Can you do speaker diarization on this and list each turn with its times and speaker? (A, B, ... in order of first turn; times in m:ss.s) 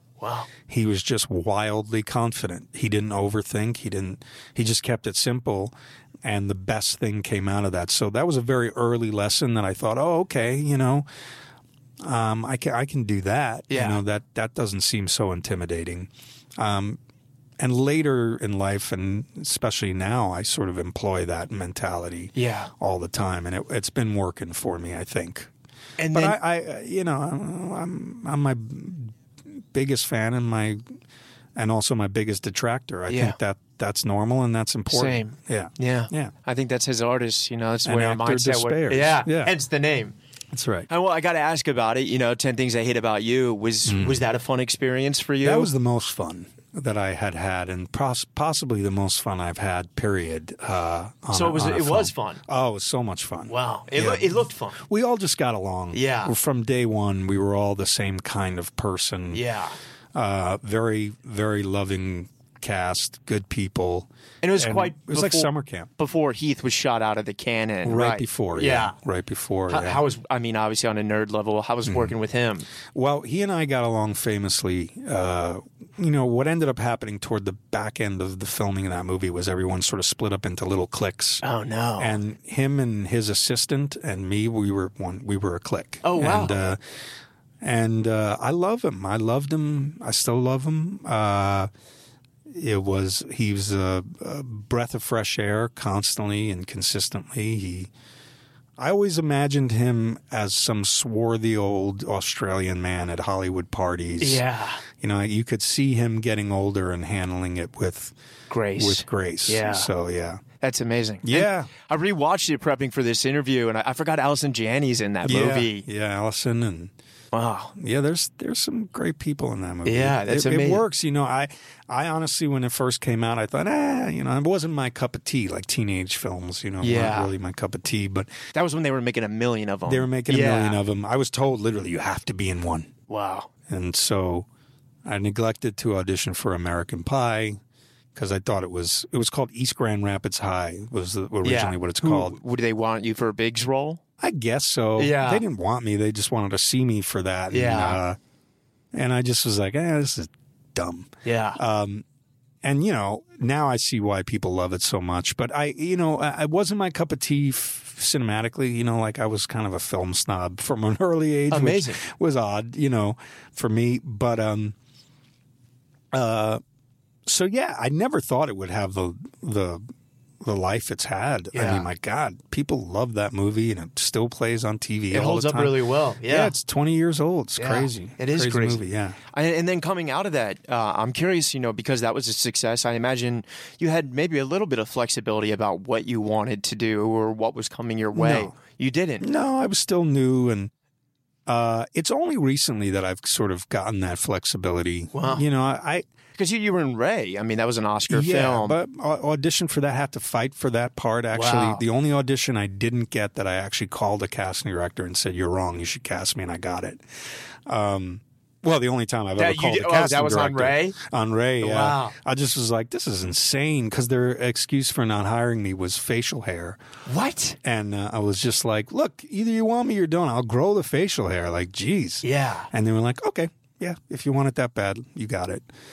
0:00.2-0:00.5 A
0:00.7-0:05.7 B
0:06.2-0:11.1 B
0:12.0-0:17.0 B
0:13.7-0:14.0 A
0:17.6-0:25.5 B
0:22.4-0:22.7 A
0:26.0-0:26.4 A
0:26.1-0:30.8 B
0:31.6-0:36.3 B
0:33.1-0:33.4 A
0:34.9-0:40.2 A
0:37.8-0:39.5 B
0:40.5-0:40.9 B
0:40.9-0:45.7 A
0:43.9-0:44.2 B
0:45.4-0:59.4 B
0:51.3-0:52.4 A
0:53.5-0:54.8 A
0:55.9-0:56.3 A
0:59.3-0:59.8 A
1:00.2-1:05.9 B
1:04.4-1:09.0 A
1:07.8-1:10.0 B
1:09.7-1:12.7 A
1:11.9-1:12.1 B
1:12.9-1:21.4 B
1:21.4-1:22.2 A
1:22.0-1:26.8 B
1:26.0-1:26.6 A
1:27.6-1:31.7 B
1:32.5-1:37.9 B
1:38.8-1:48.2 B
1:44.2-1:44.8 A
1:48.5-1:49.9 A
1:48.8-1:50.4 B
1:50.6-1:55.9 A
1:51.2-1:51.7 B
1:55.2-1:56.9 B
1:57.3-1:57.7 A
1:57.8-2:08.3 B
1:59.8-2:00.8 A
2:06.8-2:07.3 A
2:08.5-2:10.8 A
2:09.9-2:12.9 B
2:13.1-2:13.5 A
2:13.7-2:14.5 B
2:15.0-2:17.6 B
2:18.2-2:22.4 B
2:21.4-2:24.0 A
2:24.2-2:28.2 B
2:25.0-2:25.4 A
2:27.5-2:28.0 A
2:28.9-2:32.0 B
2:31.2-2:31.6 A
2:32.6-2:44.8 B
2:41.5-2:42.0 A
2:46.1-2:46.6 B
2:47.3-2:49.8 B
2:50.4-2:59.2 B
2:51.5-2:51.9 A
2:55.1-2:56.5 A
2:57.6-3:09.3 A
3:08.2-3:08.5 B
3:09.2-3:10.7 B
3:11.5-3:16.1 B
3:15.1-3:15.4 A
3:16.4-3:18.8 A
3:18.1-3:27.0 B
3:21.3-3:21.8 A
3:27.7-3:36.8 B
3:29.4-3:31.0 A
3:31.6-3:32.2 A
3:37.1-3:37.6 A
3:37.6-3:45.7 B
3:42.2-3:42.7 A